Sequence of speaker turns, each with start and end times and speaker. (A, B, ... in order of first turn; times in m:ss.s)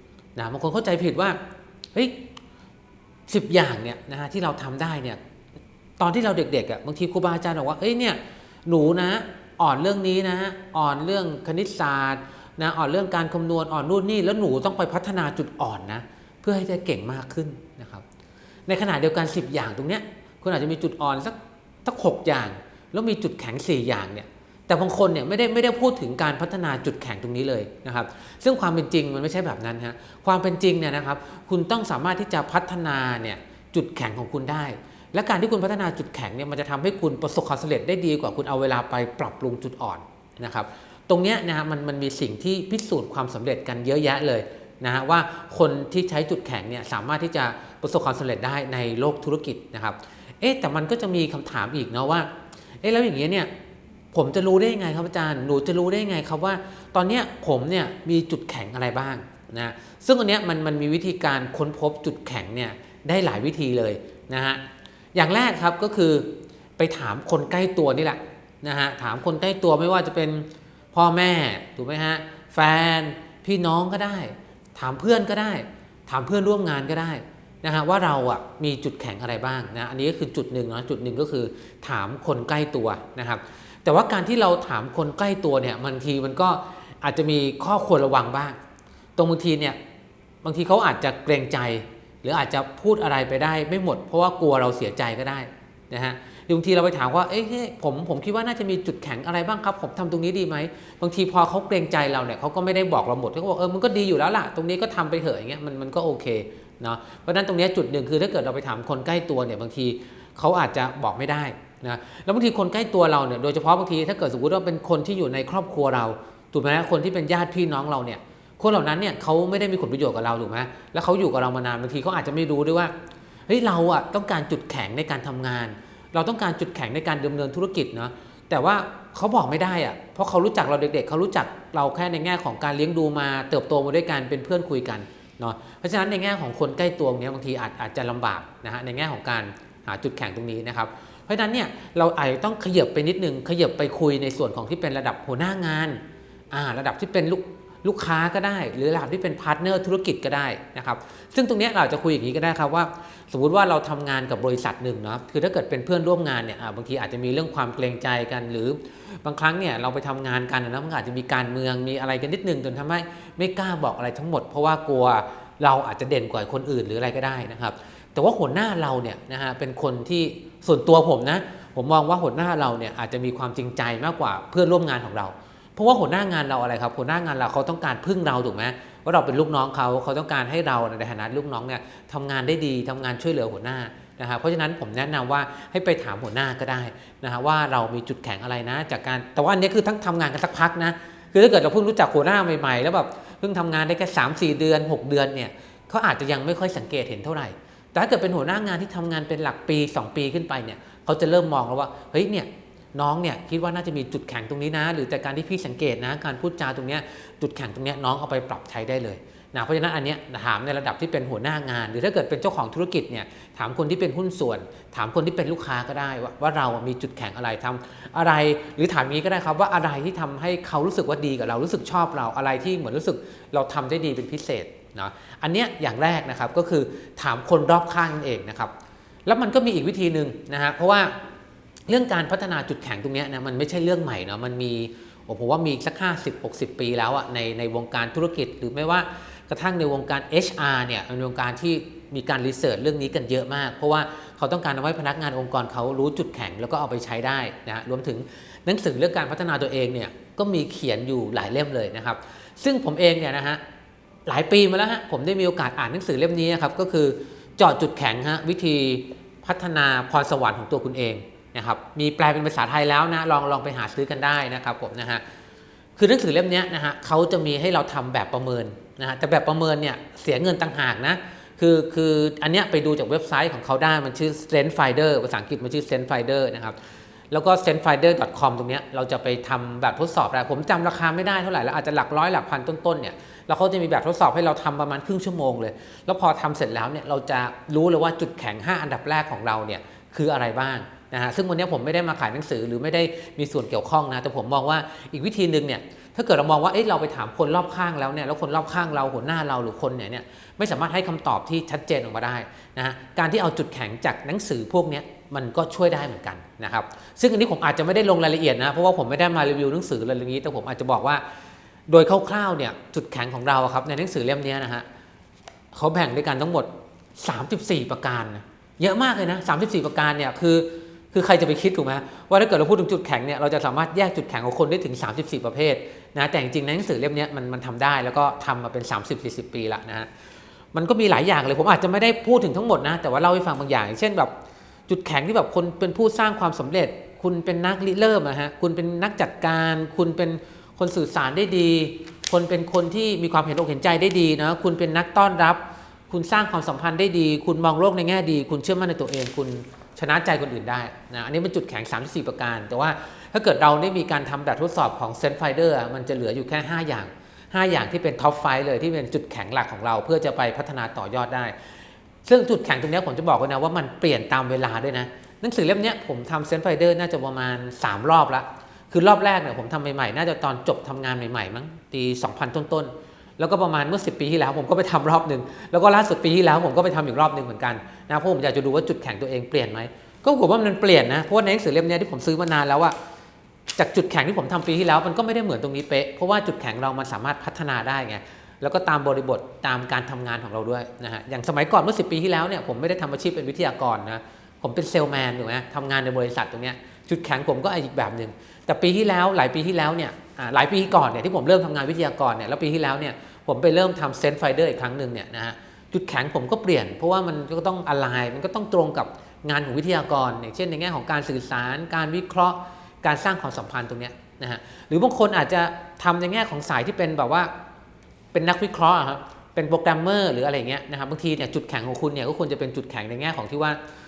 0:00.4-0:01.4 A
0:01.9-0:02.2 A
0:03.3-0:05.2 A
0:06.0-0:18.0 A
0:18.7-0:52.3 A
0:52.8-0:53.5 A
0:54.1-1:04.6 A
1:05.1-1:28.6 A
1:29.2-1:29.8 A
1:30.4-2:02.9 A
2:03.5-3:48.7 A
3:49.2-3:51.2 A
3:51.9-4:13.6 A
4:14.2-4:25.2 A
4:26.0-4:36.8 A
4:37.3-5:11.2 A
5:11.9-5:14.8 A
5:15.7-5:30.1 A
5:30.7-5:34.3 A
5:34.9-6:01.6 A
6:02.2-6:22.9 A
6:23.8-6:57.5 A
6:58.3-7:03.8 A